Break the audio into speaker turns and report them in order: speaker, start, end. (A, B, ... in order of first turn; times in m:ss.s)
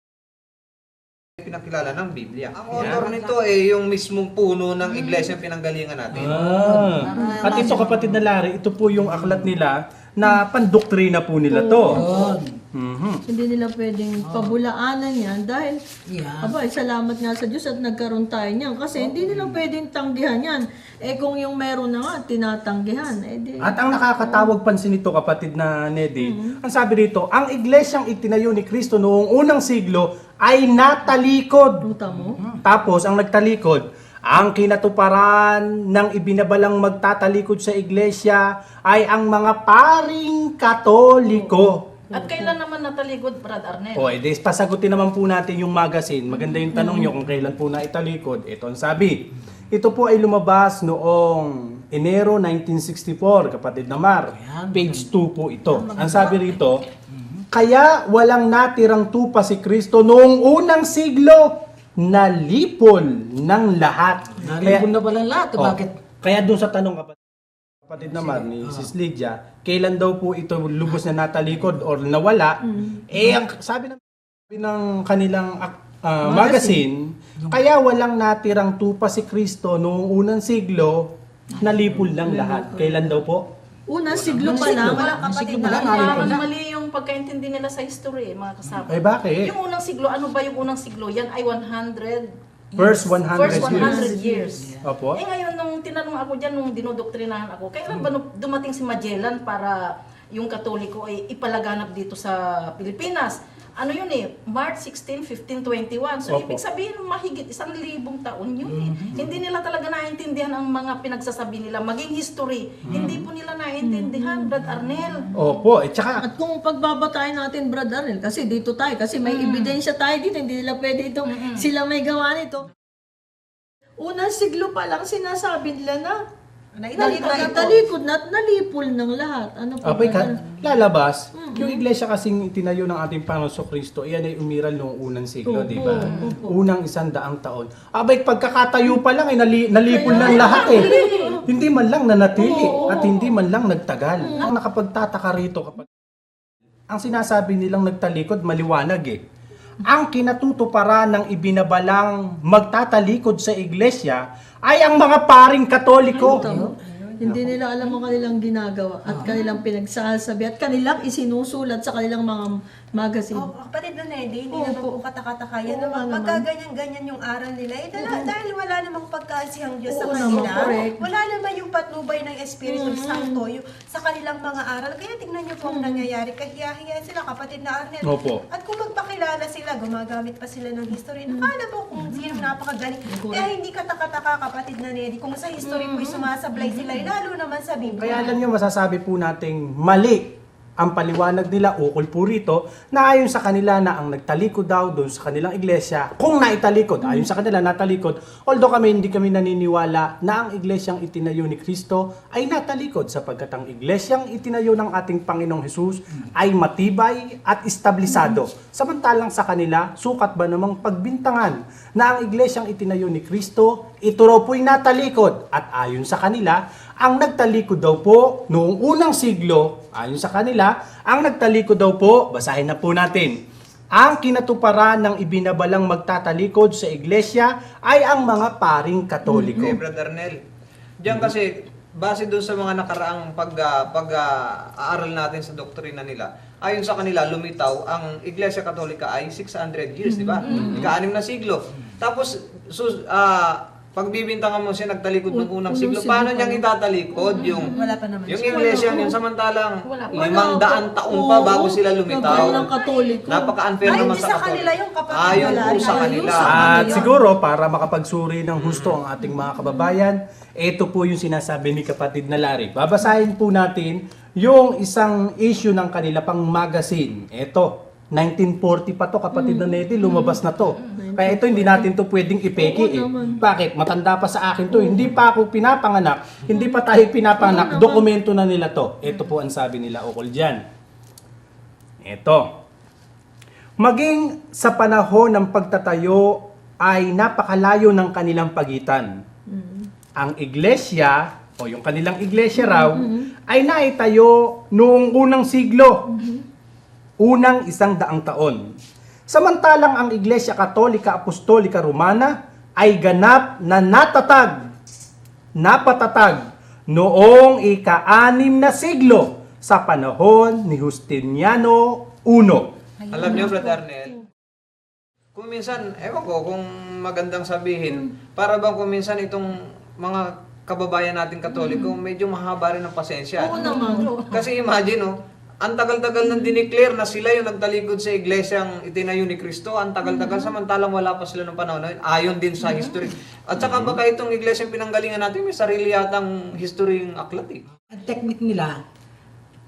0:01.4-0:06.4 A
0:02.7-0:03.3 B
0:04.9-0:05.2 C
0:06.1-0:12.1 D
0:06.3-0:08.2 B
0:07.1-0:07.7 E
0:09.0-0:09.5 B
0:11.5-0:12.3 E
0:11.9-0:12.6 B
0:12.7-0:13.2 D
0:13.3-0:15.8 E
0:14.2-0:14.5 B
0:16.1-0:16.6 B
0:16.4-0:24.5 E
0:19.0-0:19.6 B
0:23.6-0:31.8 D
0:26.2-0:26.6 E
0:31.8-0:32.4 E
0:32.2-0:32.6 B
0:32.6-0:41.8 D
0:41.3-0:42.5 E
0:42.1-0:44.1 C
0:43.9-0:56.8 D
0:46.7-0:47.1 E
0:54.3-0:55.1 B
0:55.7-0:56.4 B
0:57.1-0:57.4 B
0:57.5-1:04.9 D
1:04.4-1:06.0 B
1:05.6-1:07.2 D
1:07.8-1:23.5 D
1:08.4-1:08.9 B
1:12.6-1:13.0 E
1:16.2-1:16.8 E
1:22.0-1:23.0 B
1:23.9-1:26.3 E
1:24.1-1:24.4 A
1:24.4-1:26.4 F
1:24.5-1:26.2 B
1:25.8-1:32.3 C
1:28.8-1:29.5 D
1:32.8-1:34.8 B
1:32.8-1:34.1 D
1:33.3-1:55.3 C
1:34.8-1:35.2 D
1:46.2-1:46.6 D
1:48.7-1:49.2 B
1:52.8-1:53.2 D
1:53.8-1:54.4 E
1:55.3-1:56.2 D
1:56.2-2:02.7 E
1:59.2-1:59.8 C
2:01.2-2:01.6 C
2:04.0-2:06.2 E
2:06.8-2:07.8 F
2:07.0-2:10.4 E
2:09.8-2:20.9 D
2:11.4-2:11.8 E
2:15.5-2:16.5 E
2:19.9-2:21.4 E
2:20.1-2:21.4 C
2:21.4-2:25.9 D
2:22.4-2:23.3 E
2:24.2-2:24.5 E
2:26.9-2:29.2 D
2:29.8-2:36.5 D
2:36.2-2:43.5 E
2:36.2-2:36.6 B
2:36.5-2:37.0 F
2:37.2-2:37.5 D
2:43.3-3:08.4 F
2:44.5-2:45.0 E
2:45.6-2:46.4 E
2:48.0-2:48.3 E
2:49.9-2:51.0 E
2:52.7-2:53.4 E
2:55.6-2:56.0 E
2:58.0-2:58.4 D
3:03.1-3:03.5 E
3:05.6-3:06.8 E
3:08.0-3:43.4 D
3:43.9-3:49.8 D
3:49.3-3:49.7 E
3:49.4-3:50.4 A
3:51.0-4:07.7 A
4:00.1-4:00.8 E
4:00.4-4:00.9 C
4:00.5-4:00.9 D
4:05.3-4:06.6 E
4:07.3-4:07.7 C
4:07.4-4:09.0 F
4:07.6-4:09.2 E
4:08.3-4:12.7 A
4:08.5-4:09.1 C
4:09.8-4:10.4 C
4:10.1-4:14.1 E
4:12.2-4:13.2 F
4:13.3-4:16.8 A
4:13.8-4:17.1 F
4:15.3-4:17.1 E
4:16.4-4:40.6 D
4:18.6-4:19.0 A
4:29.3-4:31.9 E
4:32.5-4:33.4 E
4:34.7-4:35.1 E
4:36.5-4:36.8 E
4:37.4-4:38.1 E
4:42.0-4:42.5 D
4:43.8-4:49.1 D
4:49.5-4:49.9 E
4:50.2-4:56.0 D
4:52.5-4:53.3 E
4:56.1-4:56.4 E
4:57.2-4:58.6 D
4:59.3-5:04.6 D
5:05.6-5:12.7 D
5:13.1-5:14.2 A
5:13.1-5:13.7 F
5:13.3-5:13.5 E
5:15.3-5:37.6 A
5:21.6-5:21.9 C
5:23.4-5:24.1 E
5:23.5-5:24.5 C
5:33.6-5:34.0 D
5:37.9-5:38.8 B